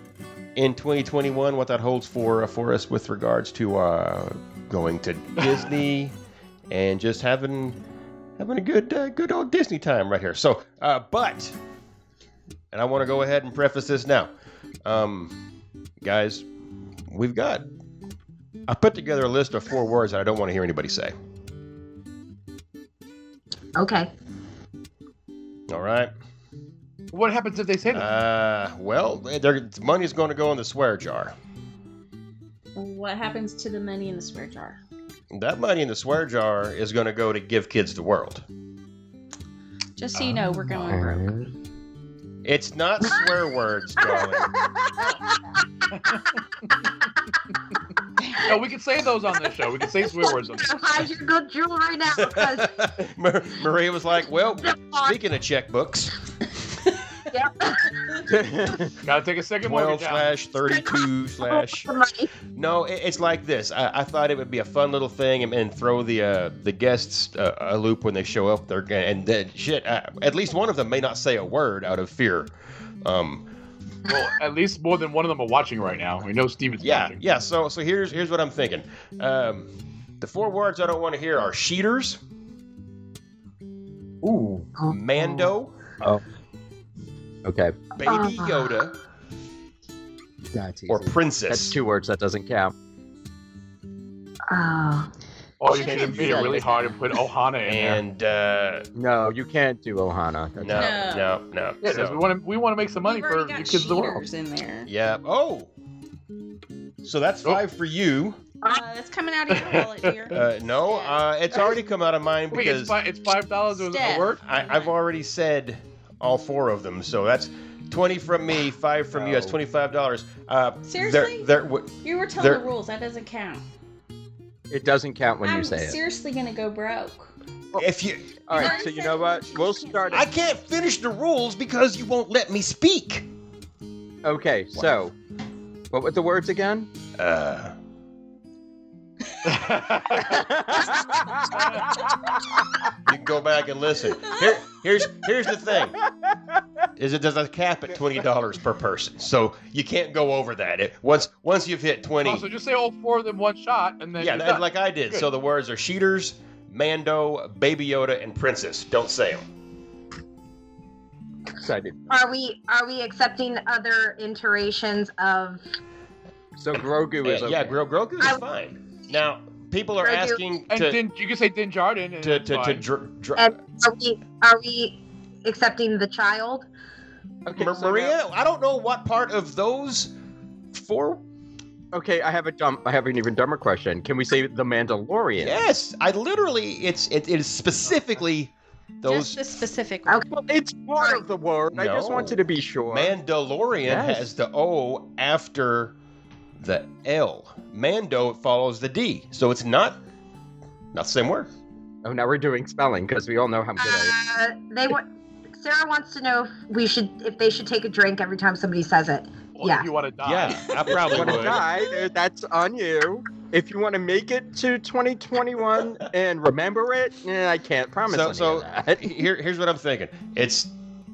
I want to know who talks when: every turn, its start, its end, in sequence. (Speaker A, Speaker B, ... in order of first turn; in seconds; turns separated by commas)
Speaker A: 0.6-6.1, Speaker A: 6.7-7.8, Speaker A: 8.4-11.6, Speaker A: 12.7-14.3, Speaker A: 14.8-15.3, Speaker A: 16.0-16.5, Speaker A: 17.1-17.7, Speaker A: 18.7-21.1, Speaker B: 23.8-24.1, Speaker A: 25.7-26.1, Speaker C: 27.1-28.1, Speaker A: 27.9-31.4, Speaker D: 32.8-34.8, Speaker A: 35.3-38.4, Speaker D: 40.0-41.3, Speaker E: 40.9-41.5, Speaker A: 42.4-44.5, Speaker D: 48.2-48.5, Speaker C: 48.5-50.8, Speaker B: 50.2-52.7, Speaker A: 52.2-56.1, Speaker B: 54.6-55.2, Speaker B: 57.3-58.2, Speaker E: 58.3-58.9, Speaker C: 59.0-60.3, Speaker A: 59.6-61.9, Speaker B: 60.7-62.3, Speaker A: 62.5-72.5, Speaker A: 73.0-73.5, Speaker C: 74.1-77.2, Speaker A: 76.8-79.7, Speaker A: 80.2-82.2, Speaker B: 84.8-85.5, Speaker A: 84.9-85.7, Speaker E: 87.5-87.8, Speaker A: 88.0-88.9, Speaker B: 88.0-88.7, Speaker E: 90.5-92.7, Speaker A: 90.9-91.8, Speaker B: 94.5-95.1, Speaker C: 95.6-98.0, Speaker D: 95.7-97.1, Speaker A: 95.7-96.6, Speaker E: 95.8-96.6, Speaker A: 97.6-98.9, Speaker E: 99.0-101.0, Speaker A: 100.6-102.2, Speaker D: 100.7-101.3, Speaker C: 101.8-104.2, Speaker D: 103.0-104.9, Speaker A: 104.9-105.7, Speaker A: 107.0-108.4, Speaker D: 108.7-111.2, Speaker C: 109.5-110.0, Speaker A: 110.3-113.0, Speaker C: 112.5-114.4, Speaker D: 113.7-114.9, Speaker A: 114.4-122.6, Speaker E: 119.1-119.6, Speaker D: 120.8-121.5, Speaker D: 122.0-123.7, Speaker E: 124.7-126.0, Speaker D: 125.4-127.3, Speaker A: 127.8-128.4, Speaker E: 128.5-130.3, Speaker D: 128.5-130.6, Speaker A: 130.1-133.3, Speaker E: 134.2-135.2, Speaker E: 135.9-136.9, Speaker A: 137.2-137.8, Speaker C: 139.4-140.3, Speaker E: 140.3-141.6, Speaker A: 143.1-146.0, Speaker A: 147.0-152.5, Speaker C: 152.2-155.3, Speaker A: 154.2-159.5, Speaker E: 161.6-162.1, Speaker B: 162.1-165.6, Speaker E: 166.6-167.8, Speaker A: 167.2-171.0, Speaker B: 170.0-170.4, Speaker C: 170.7-172.9, Speaker A: 172.2-173.5, Speaker B: 173.4-176.7, Speaker E: 177.5-178.2, Speaker A: 177.6-180.1, Speaker A: 180.7-181.2, Speaker E: 181.9-185.6, Speaker A: 185.4-188.5, Speaker A: 189.0-189.4, Speaker D: 189.1-190.2, Speaker B: 190.1-190.4, Speaker E: 190.4-193.2, Speaker A: 191.7-192.4, Speaker A: 192.9-195.9, Speaker E: 193.8-194.3, Speaker A: 196.6-200.0, Speaker A: 200.9-201.5, Speaker E: 202.0-204.2, Speaker B: 203.8-205.1, Speaker B: 205.6-209.9, Speaker C: 209.6-211.5, Speaker A: 210.2-211.6, Speaker E: 211.1-219.2, Speaker A: 218.1-220.7